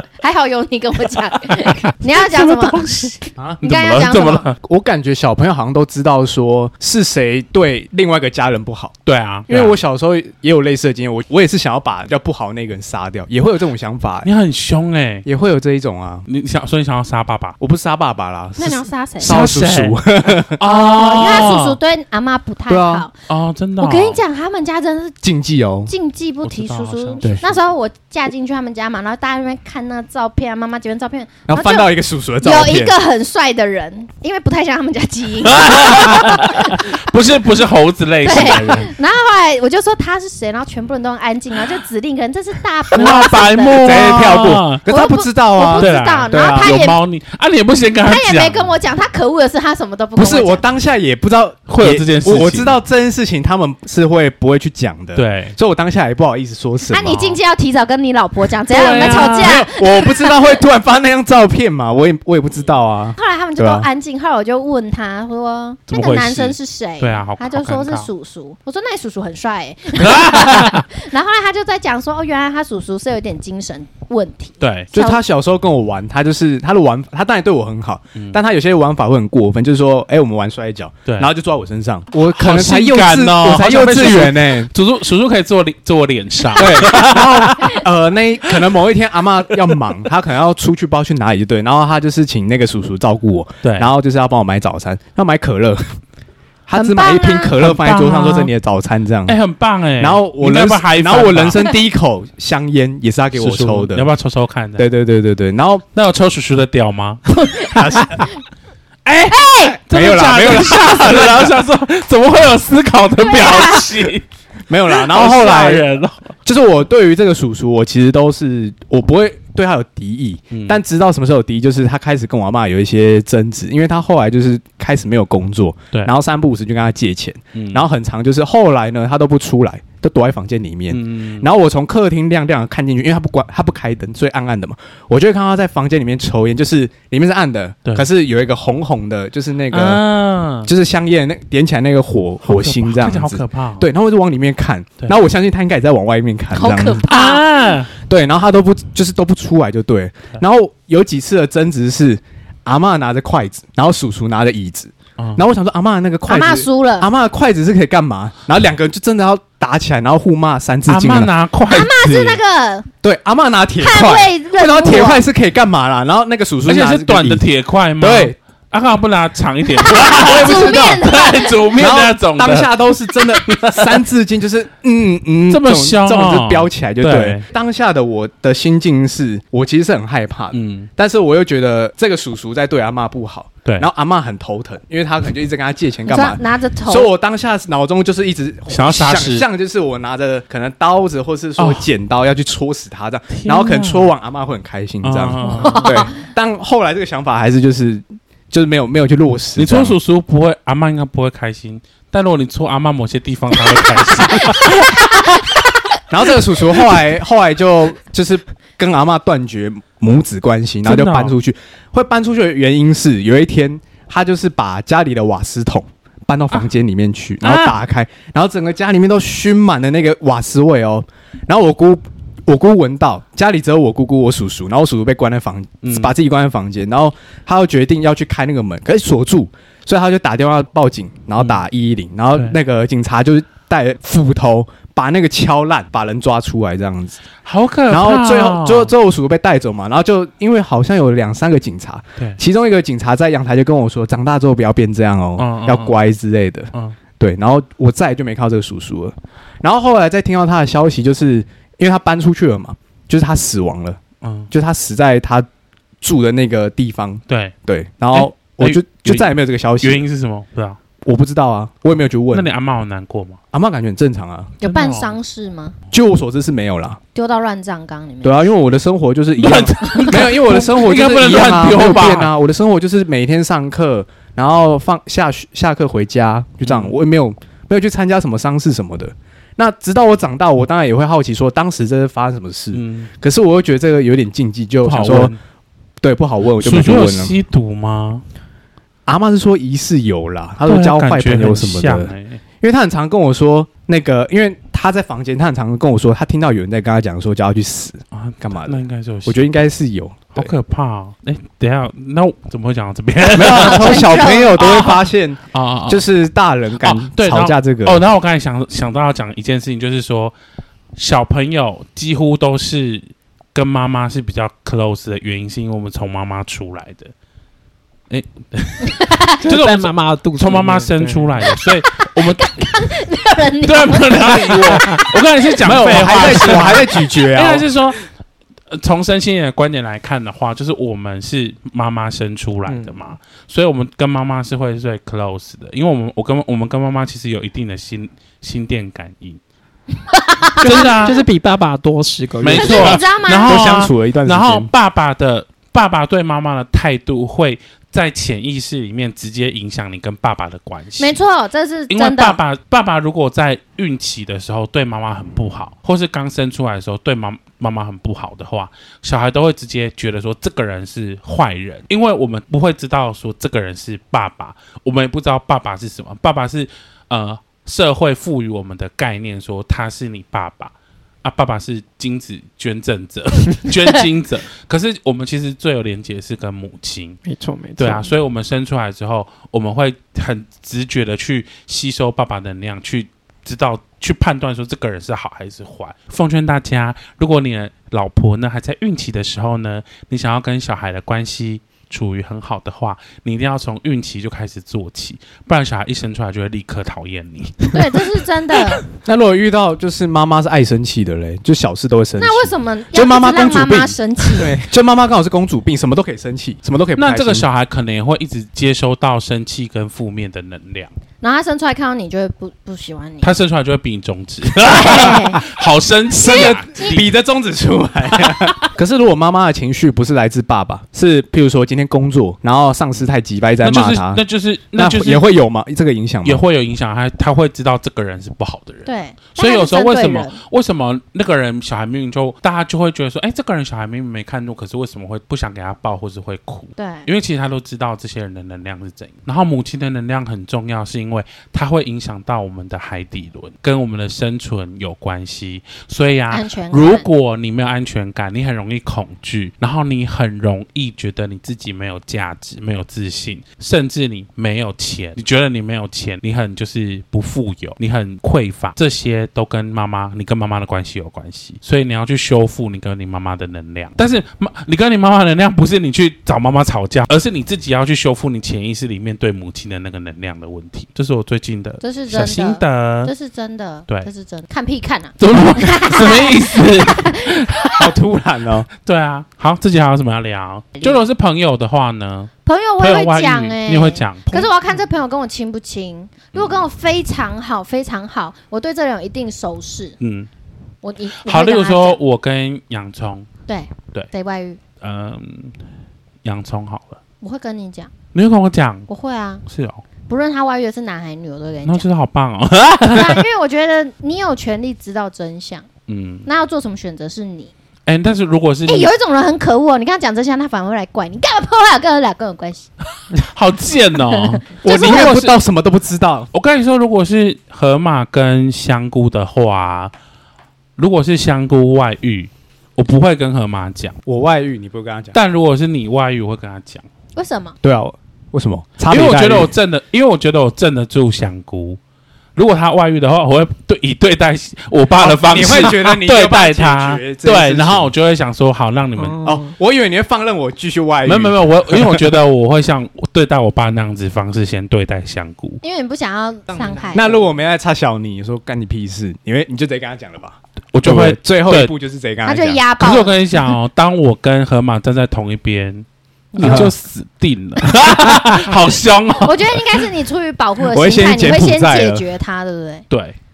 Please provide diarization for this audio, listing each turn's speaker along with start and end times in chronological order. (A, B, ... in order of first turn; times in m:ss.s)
0:00.2-0:04.5 A
0:01.5-0:04.6 B
0:04.6-0:08.9 C
0:09.1-0:09.8 B
0:09.5-0:14.3 C
0:14.2-0:15.3 B
0:15.2-0:16.3 C
0:16.3-0:17.6 B
0:17.6-0:20.6 C
0:18.6-0:19.4 A
0:19.2-0:21.8 B
0:20.6-0:23.1 A
0:22.7-0:23.0 C
0:23.3-0:24.2 B
0:23.8-0:25.2 A
0:25.2-0:25.9 C
0:25.9-0:37.1 A
0:26.4-0:27.6 B
0:31.5-0:33.0 C
0:35.4-0:38.9 B
0:38.2-0:47.0 A
0:42.9-0:44.8 B
0:43.8-0:46.8 C
0:45.8-0:48.7 B
0:48.1-0:50.6 A
0:50.2-0:57.4 C
0:51.7-0:52.8 B
0:55.2-0:55.6 B
0:56.9-1:00.6 A
0:58.7-0:59.6 B
0:58.7-1:03.9 C
1:03.2-1:15.2 A
1:05.9-1:08.1 B
1:10.0-1:10.8 B
1:14.6-1:14.9 B
1:14.9-1:24.7 C
1:21.1-1:21.3 B
1:22.2-1:27.8 B
1:26.6-1:36.0 C
1:33.6-1:33.9 B
1:36.7-1:39.4 C
1:36.7-1:37.6 A
1:37.5-1:38.5 B
1:39.3-1:41.7 B
1:40.0-1:44.1 C
1:43.4-1:44.9 B
1:44.8-1:45.8 C
1:46.0-1:47.2 B
1:47.3-1:48.3 A
1:47.7-1:48.2 C
1:49.0-1:54.2 B
1:49.3-1:49.8 A
1:49.9-1:51.6 C
1:53.2-1:53.9 A
1:54.7-1:55.9 C
1:54.9-1:56.3 B
1:56.4-2:20.0 C
2:00.5-2:00.8 B
2:07.6-2:07.8 B
2:10.9-2:11.5 B
2:19.7-2:20.7 B
2:20.6-2:27.1 C
2:22.4-2:23.9 B
2:26.5-2:27.4 A
2:26.9-2:27.9 B
2:28.0-2:41.3 C
2:35.2-2:35.5 B
2:36.3-2:37.1 A
2:40.9-2:42.4 B
2:41.7-2:42.9 A
2:43.0-2:47.4 C
2:43.8-2:45.2 A
2:46.7-2:54.0 B
2:48.0-2:48.4 C
2:49.8-2:51.7 A
2:50.0-2:51.0 C
2:51.7-3:20.0 C
2:55.5-2:57.4 B
3:00.5-3:00.9 B
3:06.1-3:07.1 A
3:08.7-3:09.5 B
3:11.6-3:11.9 B
3:13.3-3:14.1 B
3:15.0-3:16.0 B
3:15.4-3:16.1 A
3:19.6-3:25.4 B
3:24.2-3:25.3 A
3:26.1-3:57.2 C
3:30.8-3:31.4 B
3:37.4-3:37.8 B
3:45.8-3:46.1 B
3:57.4-3:58.9 B
3:57.9-4:14.0 C
4:05.4-4:06.0 B
4:14.2-4:14.5 B
4:14.5-4:15.5 C
4:16.0-4:20.0 C
4:17.3-4:17.5 B
4:18.1-4:20.8 B
4:21.0-4:22.5 C
4:22.3-4:23.4 B
4:23.5-4:24.5 C
4:24.6-4:25.8 A
4:24.6-4:25.2 B
4:25.9-4:27.0 C
4:27.1-4:28.5 A
4:28.2-4:45.3 C
4:29.4-4:32.3 B
4:36.6-4:37.0 B
4:42.7-4:43.1 B
4:44.8-4:45.4 B
4:46.0-4:47.4 C
4:46.6-4:48.2 B
4:49.1-5:00.5 C
4:50.6-4:52.4 B
4:58.1-4:59.5 B
5:00.4-5:06.0 B
5:03.3-5:08.0 C
5:03.5-5:04.9 A
5:06.8-5:10.4 B
5:11.0-5:17.1 B
5:18.1-5:22.6 B
5:18.9-5:19.4 A
5:19.4-5:21.5 D
5:21.6-5:25.1 A
5:23.6-5:28.1 B
5:24.7-5:25.0 D
5:25.6-5:27.7 C
5:28.7-5:39.4 B
5:32.7-5:32.9 D
5:40.1-5:41.1 A
5:40.6-5:43.0 D
5:40.6-5:41.2 B
5:42.4-5:51.2 B
5:42.5-5:43.6 A
5:43.4-5:44.7 C
5:51.0-5:52.4 A
5:51.9-6:17.2 B
6:17.3-6:18.1 D
6:17.8-6:38.0 B
6:37.7-6:38.8 A
6:39.0-6:47.5 C
6:42.2-6:44.6 A
6:47.0-6:50.9 B
6:51.2-6:53.3 A
6:53.2-6:57.1 B
6:54.6-6:55.4 A
6:56.2-6:57.0 A
6:56.2-7:04.2 C
6:58.2-6:58.7 B
7:03.6-7:05.3 B
7:04.7-7:06.4 C
7:06.2-7:53.1 B
7:08.8-7:10.4 A
7:16.8-7:17.1 A
7:26.3-7:27.1 A
7:51.8-7:57.5 A
7:55.2-7:57.8 B
7:57.8-7:58.7 C
7:58.8-8:04.5 B
8:02.4-8:10.0 A
8:06.3-8:06.7 B
8:10.0-8:10.3 B
8:10.8-8:12.0 A
8:11.2-8:13.3 B
8:13.5-8:14.6 A
8:14.8-8:15.6 B
8:16.2-8:17.0 B
8:17.2-8:17.9 A
8:18.1-8:18.9 B
8:18.9-8:19.4 A
8:19.5-8:19.8 B
8:20.1-8:21.9 A
8:21.6-8:23.2 B
8:22.9-8:25.7 A
8:25.9-8:26.3 B
8:26.3-8:27.5 A
8:27.9-8:28.9 B
8:28.7-8:32.7 A
8:33.1-8:35.4 B
8:34.1-8:35.1 A
8:34.6-8:36.3 C
8:36.3-8:39.9 B
8:40.8-8:44.0 B
8:44.1-8:45.2 C
8:45.1-8:46.9 B
8:47.2-8:47.6 A
8:47.6-8:49.5 C
8:48.9-8:51.8 B
8:52.4-8:59.2 B
8:54.9-8:57.9 C
8:59.0-8:59.5 D
8:59.2-9:02.2 C
9:01.0-9:05.6 B
9:05.6-9:07.1 A
9:06.5-9:07.3 D
9:07.0-9:12.6 C
9:10.7-9:11.7 B
9:12.2-9:13.2 A
9:12.8-9:19.9 B
9:16.3-9:16.7 A
9:16.4-9:16.7 C
9:18.0-9:18.4 C
9:19.2-9:22.8 A
9:20.7-9:22.1 C
9:22.9-9:23.2 B